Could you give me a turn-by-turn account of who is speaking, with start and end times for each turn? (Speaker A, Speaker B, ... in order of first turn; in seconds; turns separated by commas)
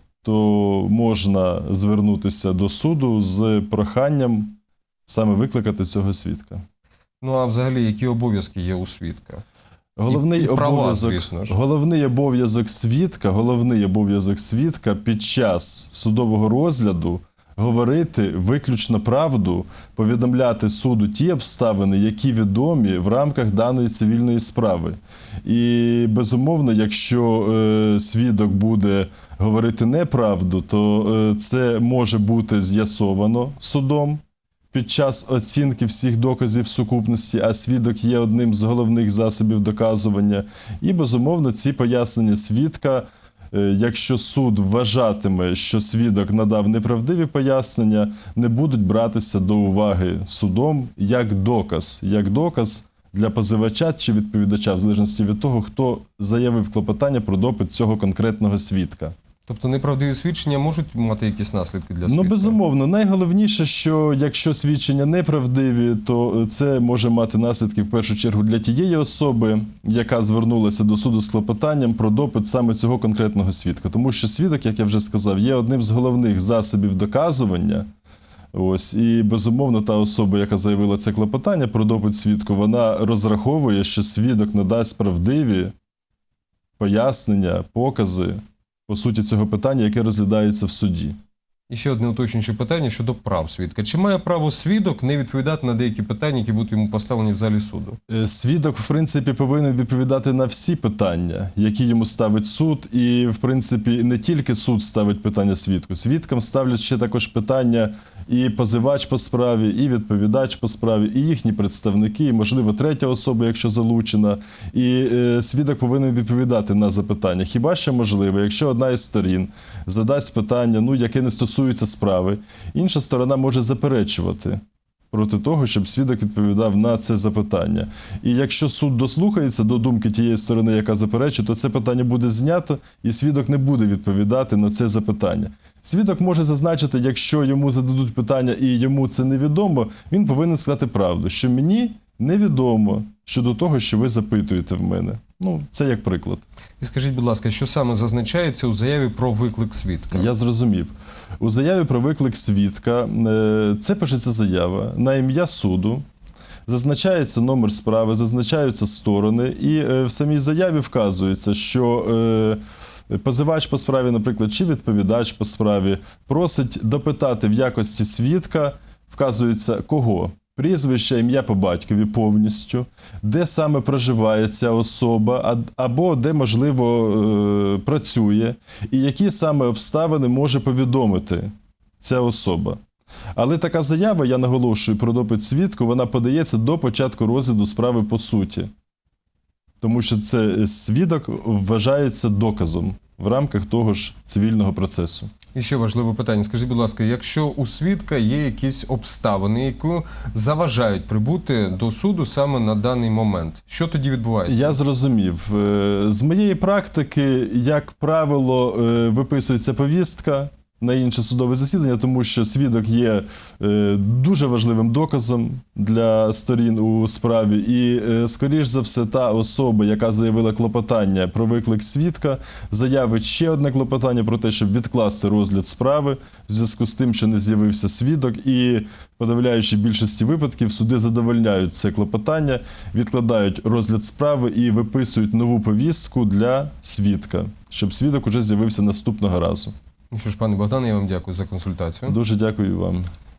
Speaker A: 0.2-6.6, Speaker B: 7.2-9.4, Speaker A: 10.0-34.2, Speaker B: 10.1-11.6, Speaker A: 34.7-59.1, Speaker B: 59.5-62.6, Speaker A: 62.1-77.9, Speaker A: 78.5-85.7, Speaker A: 86.8-91.2, Speaker B: 91.7-98.0, Speaker A: 98.1-124.6, Speaker A: 125.1-146.4, Speaker B: 146.8-150.3, Speaker A: 150.1-156.0, Speaker A: 156.7-182.8, Speaker A: 183.4-188.7, Speaker A: 189.8-195.3, Speaker B: 195.5-204.8, Speaker A: 204.5-239.8, Speaker B: 240.1-242.2, Speaker A: 242.1-243.1